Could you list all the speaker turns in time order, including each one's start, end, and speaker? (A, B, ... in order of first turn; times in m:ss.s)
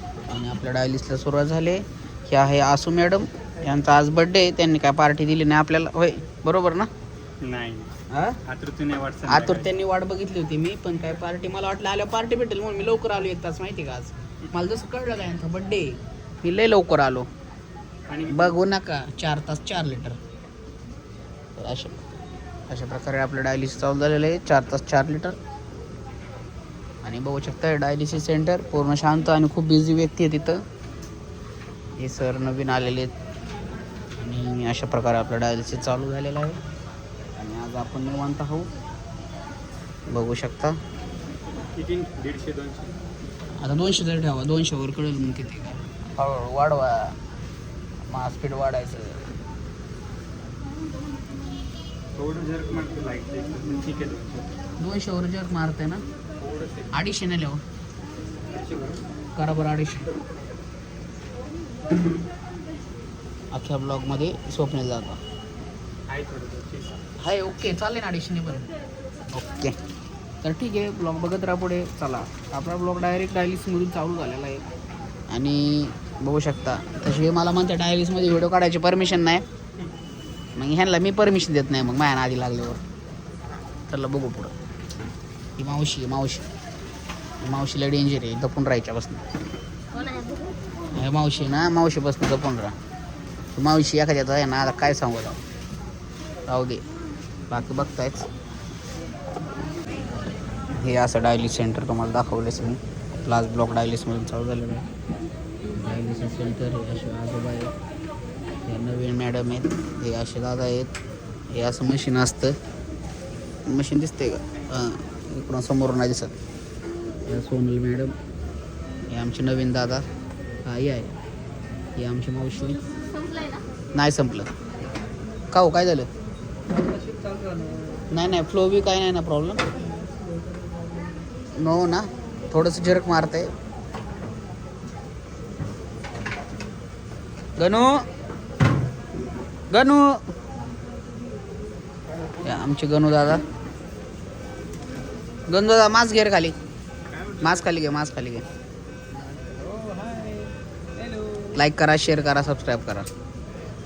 0:00.3-0:06.9 A
0:07.4-0:07.9 B
0:08.1-0:08.4 A
0:08.4-0:09.7 B
0:09.3-0:17.3 A
0:18.1-0:18.5 B
0:18.3-0:20.2 A
0:21.6-0:22.0 A
0:22.7-0:25.3 A
0:27.0-0:30.6 A
0:32.0-0:33.1 A
0:34.2-0:36.6 A
0:37.4-0:38.7 A
0:40.1-0:40.8 A
0:41.7-0:42.9 B
0:43.6-0:47.2 A
0:48.1-0:49.3 A
0:52.2-0:54.5 B
0:54.8-0:56.0 A
0:56.4-0:56.9 B
0:56.9-0:57.6 A
0:58.5-0:59.0 B
0:59.4-1:00.1 A
1:03.5-1:05.2 A
1:06.1-1:07.0 B
1:07.2-1:08.7 A
1:09.3-1:09.7 A
1:10.4-1:14.6 A
1:15.3-1:19.4 A
1:20.6-1:22.8 A
1:23.9-1:24.5 A
1:25.6-1:26.4 A
1:27.4-1:29.2 A
1:30.9-1:32.7 A
1:33.5-1:35.4 A
1:36.5-1:36.8 A
1:37.5-1:38.2 A
1:40.7-1:44.8 A
1:45.8-1:47.7 A
1:48.6-1:50.9 A
1:51.5-1:52.6 A
1:53.7-1:56.3 A
1:57.3-1:58.1 A
1:59.1-2:00.0 A
2:00.6-2:01.1 A
2:02.0-2:02.8 A
2:03.9-2:04.5 A
2:05.5-2:06.1 A
2:06.8-2:08.0 B
2:08.1-2:09.6 A
2:11.6-2:13.5 A
2:17.6-2:18.0 A
2:19.7-2:20.2 A
2:22.4-2:23.4 A
2:25.5-2:26.5 A
2:27.1-2:27.6 B
2:27.4-2:28.4 A
2:29.3-2:31.6 B
2:31.5-2:33.1 A